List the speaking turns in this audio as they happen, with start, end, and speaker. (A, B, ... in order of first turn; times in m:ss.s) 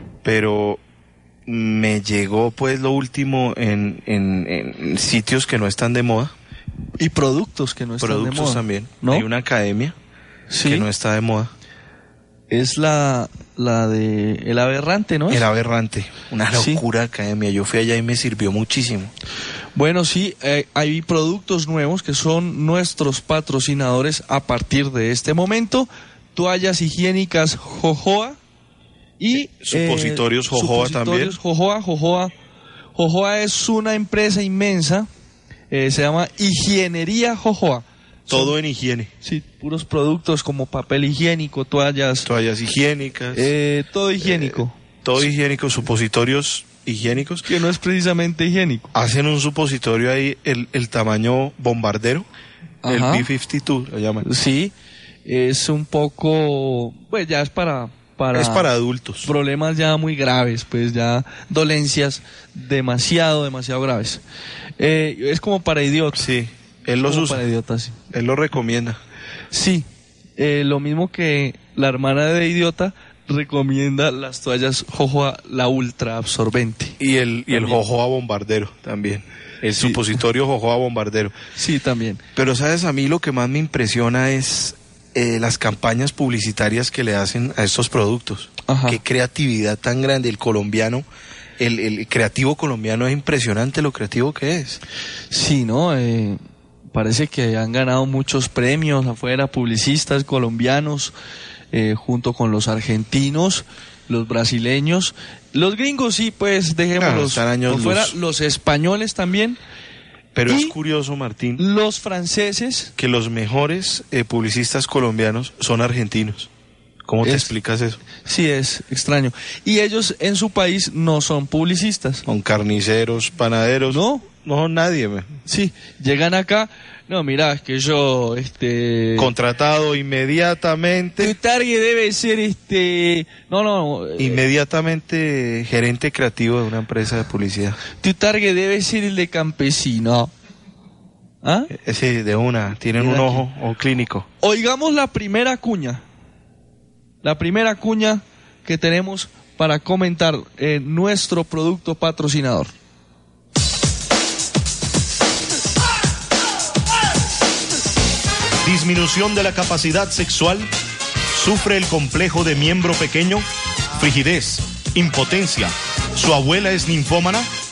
0:00.2-0:00.8 A
0:01.5-0:06.3 A
0:07.0-0:09.3 B
0:08.0-0:10.0 A
0:10.5-0:10.9 B
0:10.6-0:11.5 A
0:12.5-0:15.4 B
0:15.3-0:19.1 A
0:16.5-0:16.8 B
0:19.8-0:28.4 B
0:29.2-0:32.3 B
0:29.6-0:31.4 A
0:33.0-0:35.1 B
0:35.7-0:38.6 B
0:38.3-0:39.1 A
0:39.2-0:42.3 B
0:42.3-0:43.5 A
0:43.3-0:44.8 B
0:44.2-0:47.4 A
0:47.4-0:48.9 B
0:48.9-0:52.2 A
0:52.8-0:53.3 B
0:52.9-0:54.2 A
0:54.2-0:54.7 B
0:55.2-0:58.7 B
0:58.3-0:59.3 A
0:59.2-1:04.2 B
1:04.8-1:06.3 B
1:06.2-1:07.4 A
1:07.1-1:08.0 B
1:08.1-1:09.0 A
1:09.5-1:17.0 B
1:17.0-1:21.3 A
1:17.5-1:17.8 B
1:19.7-1:20.0 B
1:21.6-1:22.2 B
1:22.4-1:31.0 A
1:28.7-1:29.0 B
1:31.6-1:34.8 A
1:35.3-1:36.4 B
1:36.9-1:41.1 B
1:41.7-1:49.6 B
1:47.0-1:48.1 A
1:50.4-1:51.6 A
1:50.5-1:50.8 B
1:51.6-1:52.9 B
1:53.0-1:56.5 A
1:57.1-1:58.0 A
1:57.2-1:57.5 B
1:58.2-2:02.2 B
2:02.3-2:05.3 A
2:03.9-2:04.3 B
2:05.5-2:09.3 B
2:09.2-2:11.4 A
2:11.2-2:14.4 B
2:14.2-2:17.8 A
2:17.9-2:20.3 B
2:21.4-2:21.7 B
2:21.8-2:24.3 A
2:23.0-2:23.5 B
2:24.4-2:26.0 B
2:27.2-2:32.7 B
2:38.6-2:40.7 C
2:41.3-2:43.4 C
2:44.0-2:47.5 C